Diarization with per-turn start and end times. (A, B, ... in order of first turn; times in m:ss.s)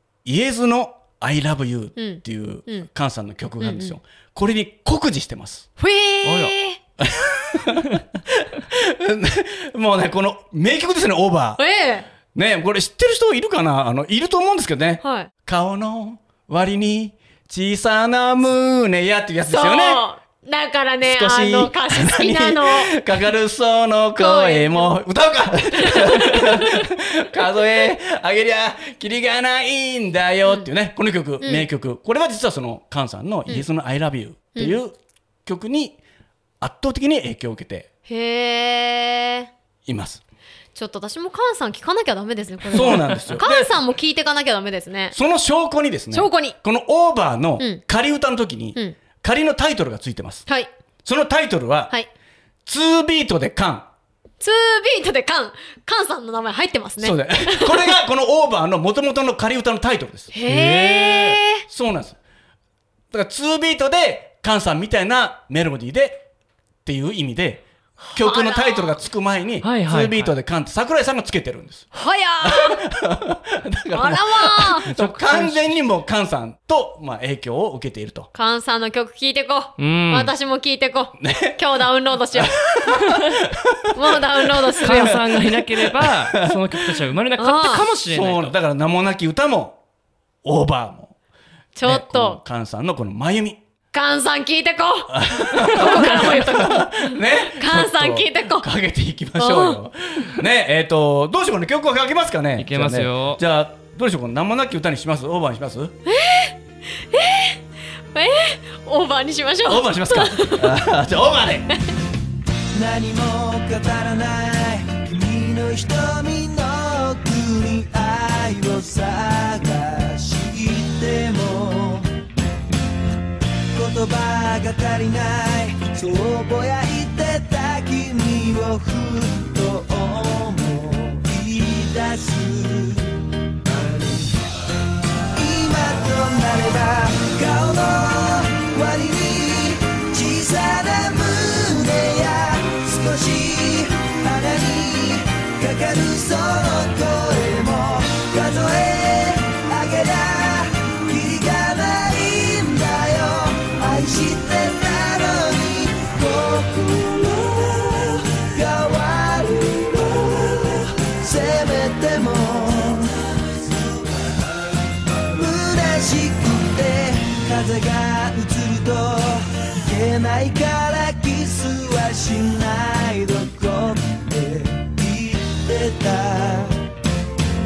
0:00.2-0:05.7 A
0:02.0-0:02.9 B
0:03.6-0:04.0 B
0:05.8-0:06.8 B
0:06.2-0:06.6 C
0:07.0-0:11.6 A
0:11.6-0:12.1 B
0:12.3-0:20.0 A
0:15.0-0:15.3 B
0:19.5-0:23.0 B
0:21.0-0:36.0 A
0:24.2-0:25.0 B
0:25.7-0:26.9 B
0:31.4-0:31.7 B
0:36.6-0:37.9 A
0:38.1-0:39.5 B
0:39.9-0:40.2 A
0:40.8-0:45.2 B
0:42.7-0:43.7 A
0:45.1-0:50.5 A
0:46.1-0:46.6 B
0:51.0-0:51.9 A
0:52.7-0:53.9 A
0:54.4-0:58.0 B
0:57.0-1:00.3 A
1:00.3-1:01.6 B
1:00.5-1:01.4 C
1:01.7-1:02.2 A
1:03.1-1:06.2 A
1:06.8-1:18.3 A
1:08.2-1:09.0 B
1:09.6-1:10.3 C
1:11.9-1:12.8 B
1:13.9-1:14.9 B
1:14.9-1:15.7 C
1:18.3-1:23.0 B
1:19.8-1:20.3 C
1:21.2-1:21.6 A
1:22.3-1:26.9 A
1:24.0-1:25.2 B
1:24.8-1:28.5 C
1:27.4-1:27.9 B
1:27.8-1:29.8 A
1:30.4-1:31.2 A
1:31.8-1:32.4 B
1:31.8-1:33.6 A
1:33.9-1:38.7 B
1:35.1-1:46.0 A
1:39.4-1:39.8 B
1:42.6-1:43.4 C
1:46.1-1:47.6 B
1:48.1-1:50.9 B
1:49.7-1:51.8 A
1:52.7-2:02.1 D
2:03.7-2:14.4 D
2:15.3-2:43.3 D
2:45.3-2:56.9 D